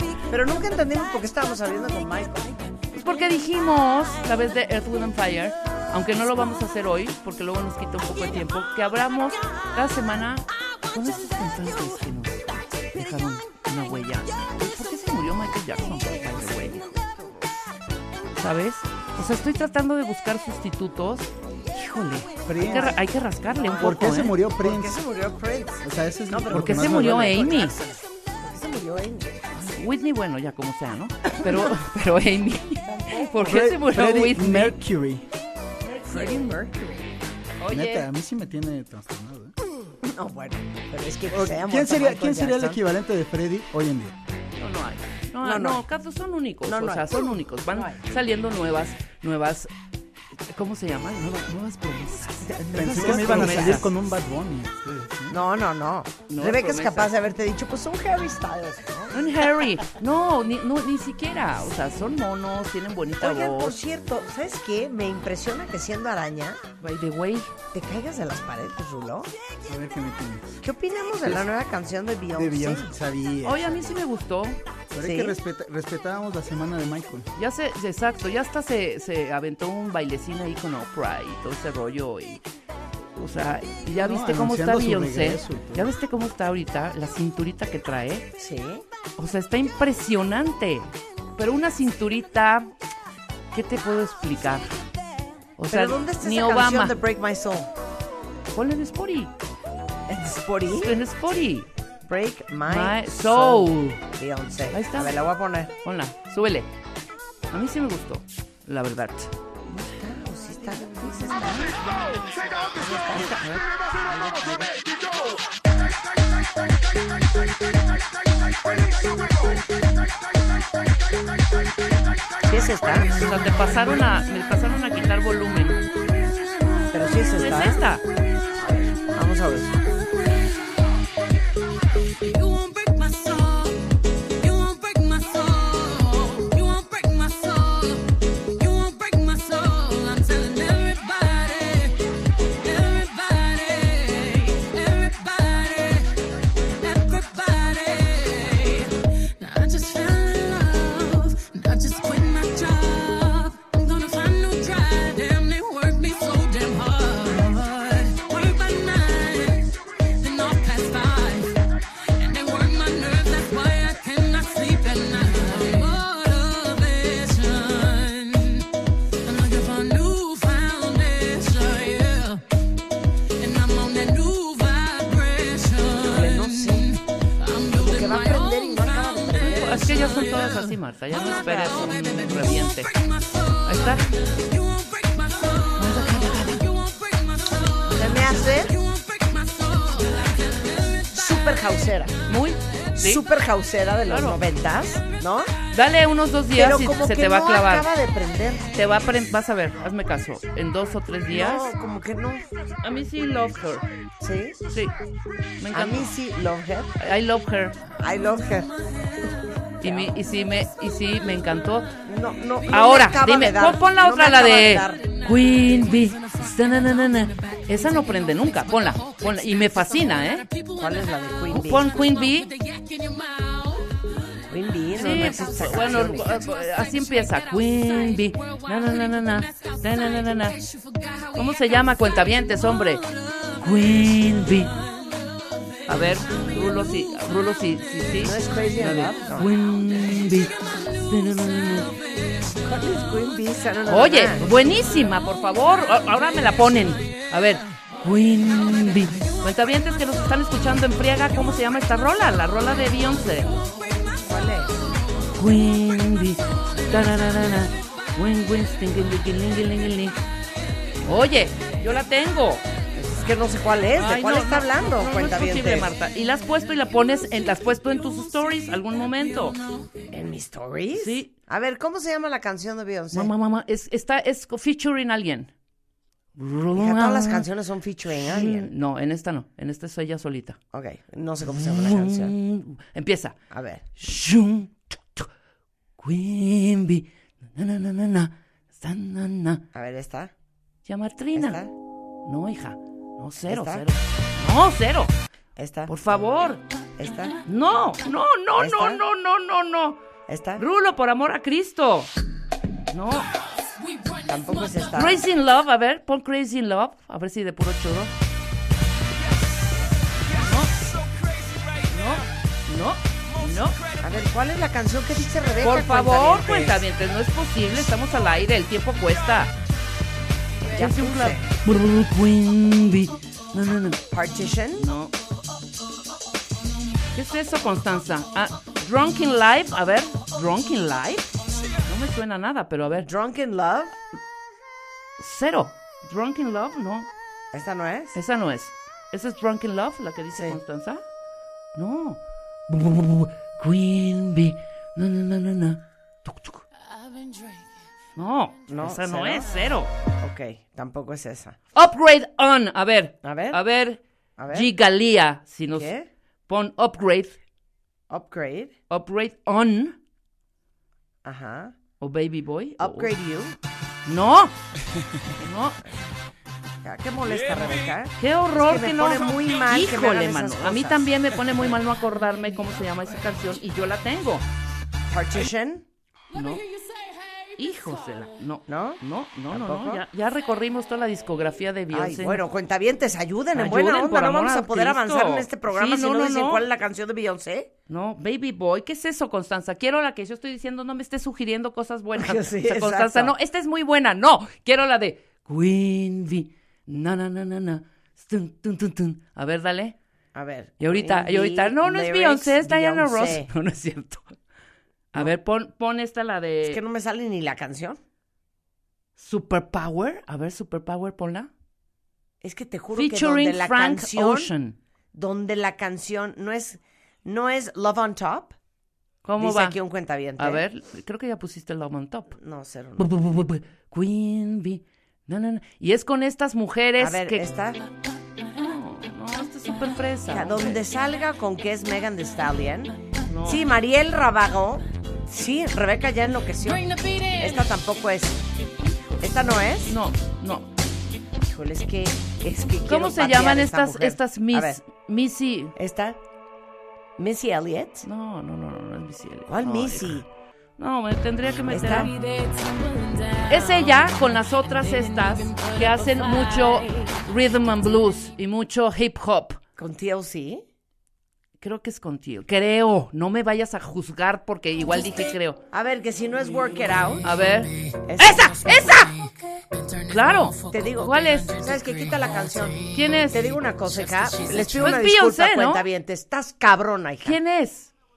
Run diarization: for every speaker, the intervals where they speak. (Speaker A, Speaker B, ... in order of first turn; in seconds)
Speaker A: 0.3-2.6, 16.3-17.3, 22.7-23.0, 23.5-23.9, 24.6-29.4, 36.1-37.0, 40.0-42.8, 45.4-45.8, 46.7-48.0, 52.5-53.8, 55.3-59.1, 63.2-66.6, 67.7-69.3, 70.6-72.9, 75.0-75.4, 88.4-88.8, 95.7-97.7, 100.1-101.0, 102.0-105.7, 109.7-114.7, 122.5-123.1, 126.9-127.8, 128.6-129.8, 175.9-176.9, 177.7-179.9, 187.9-188.8, 191.1-192.1, 193.0-195.5, 196.6-199.0, 201.3-202.5, 204.2-204.6, 205.7-206.9, 208.0-208.7, 209.8-210.1, 212.1-215.0, 220.8-221.8, 224.5-226.3, 238.2-239.5, 242.6-244.4, 254.2-254.7, 262.9-265.9, 270.1-273.3, 276.7-278.7, 280.7-282.3, 283.5-283.9, 289.7-290.3, 291.4-291.7, 293.5-293.9, 295.6-295.9, 297.0-297.4, 298.6-299.0, 300.3-300.6, 304.3-305.2, 314.0-316.9, 320.7-321.5, 324.1-324.9, 333.0-334.0, 337.5-338.2, 348.7-349.5, 350.2-351.6, 353.2-353.6, 354.4-354.7, 355.8-356.1, 358.1-358.7, 361.2-361.8, 362.8-363.6, 366.8-371.1, 375.1-375.9, 378.7-380.0, 381.9-387.7, 392.2-393.3, 400.4-403.5, 406.6-408.0, 412.4-414.5, 415.1-418.5, 419.4-420.6, 422.4-423.2, 427.0-427.8, 430.3-438.4, 439.2-439.9, 441.4-444.8, 445.8-446.2, 447.2-448.1, 449.5-450.2, 451.7-452.1, 459.8-460.6, 465.7-467.2, 468.1-469.0, 470.7-477.4
Speaker B: 2.9-16.8, 18.4-24.4, 26.5-27.8, 29.5-34.8, 35.8-36.5, 37.6-38.1, 44.6-49.7, 50.5-53.9, 56.3-57.1, 59.1-63.8, 66.8-67.5, 73.4-74.6, 77.4-82.4, 83.2-88.3, 89.2-92.7, 93.5-94.7, 95.6-97.0, 98.5-99.3, 100.8-101.7, 102.7-104.0, 104.7-105.1, 105.8-106.7, 107.5-109.3, 123.1-125.8, 127.3-128.0, 179.4-182.9, 183.7-184.0, 185.8-186.6, 192.3-193.2, 194.1-194.4, 195.7-197.9, 198.8-201.7, 202.8-203.9, 205.6-206.1, 207.0-207.8, 209.8-211.9, 212.7-220.5, 221.5-222.5, 225.0-230.6, 231.4-233.1, 233.6-234.7, 235.9-240.5, 241.1-241.9, 243.9-253.5, 255.3-260.2, 261.1-262.6, 264.0-269.6, 271.0-271.3, 273.1-275.5, 276.4-277.4, 278.2-280.6, 281.5-283.4, 284.0-285.3, 286.0-289.6, 290.9-291.6, 292.3-295.1, 295.9-296.6, 297.5-300.0, 300.6-302.1, 302.9-303.3, 305.0-308.1, 310.4-310.7, 311.9-313.8, 315.6-319.5, 320.7-324.0, 324.8-325.1, 327.1-331.3, 331.9-333.1, 335.2-337.1, 338.1-341.0, 341.8-346.6, 348.2-349.9, 351.8-354.0, 354.5-355.9, 356.5-357.4, 358.9-360.0, 362.0-363.1, 364.1-364.6, 365.4-365.8, 368.2-374.4, 376.3-376.6, 377.6-382.4, 383.5-386.6, 387.9-399.9, 400.8-404.3, 405.1-406.8, 409.2-411.5, 412.9-414.8, 419.2-419.8, 420.4-422.4, 423.0-427.5, 428.6-430.8, 433.3-433.6, 439.0-439.3, 439.9-440.7, 442.9-445.8, 448.0-450.2, 450.8-452.1, 453.5-459.6, 461.6-465.6, 467.2-469.1, 470.1-471.6, 472.9-473.5, 474.7-475.8, 477.2-477.9
Speaker C: 22.4-22.9, 23.8-25.0, 25.8-27.5, 33.4-35.3, 37.7-39.5, 41.3-44.2, 52.7-55.4, 69.7-70.6, 71.2-71.5, 72.3-73.8, 74.9-77.3, 84.0-85.9
Speaker D: 132.2-133.8, 134.4-142.0, 142.6-146.2, 146.8-161.5, 162.2-168.7, 169.2-172.4, 173.4-191.1, 215.0-221.1, 221.9-223.9, 225.3-232.3, 234.7-235.2, 240.2-242.6, 304.1-304.9, 436.7-437.6, 451.9-457.1, 470.0-470.9, 471.6-473.0, 473.9-474.8